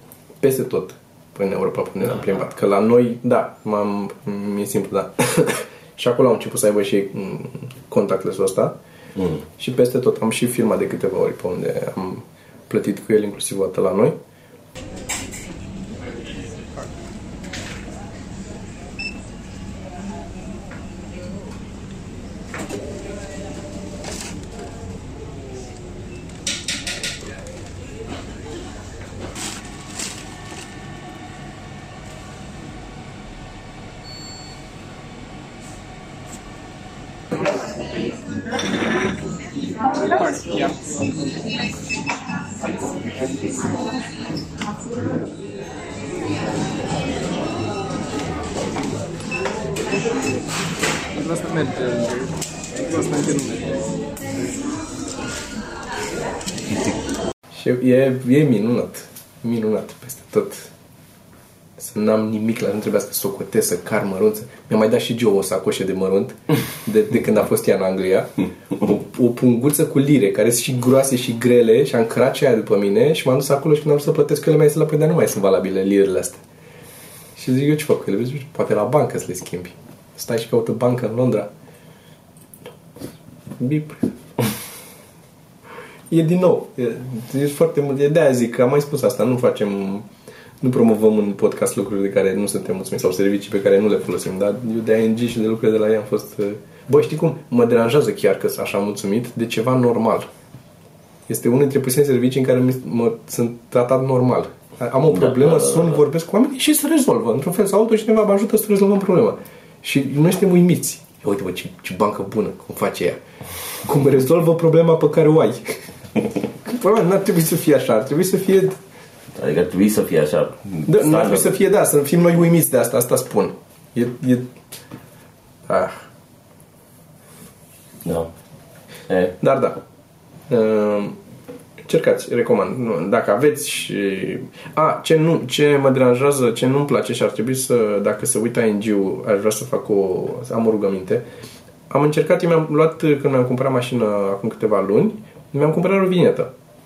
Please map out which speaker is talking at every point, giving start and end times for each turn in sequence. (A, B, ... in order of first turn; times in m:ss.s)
0:00.4-0:08.8 A
0:09.6-0:14.2 A
0:40.1-0:40.7 B
0:51.2-0:53.8 B
0:57.5-1:00.7 A
1:01.8-1:16.4 A
1:17.4-1:21.5 A
1:23.6-1:24.1 A
1:26.1-1:30.1 A
1:30.6-1:40.3 A
1:41.3-1:53.2 A
1:45.1-1:46.0 C
1:53.8-1:55.8 A
1:56.6-1:58.8 A
1:59.3-2:01.6 C
2:00.8-2:04.5 A
2:05.7-2:06.0 A
2:08.0-2:08.3 C
2:09.1-2:09.4 C
2:09.4-2:09.8 A
2:10.5-2:11.2 A
2:11.8-2:21.2 A
2:21.9-2:26.5 A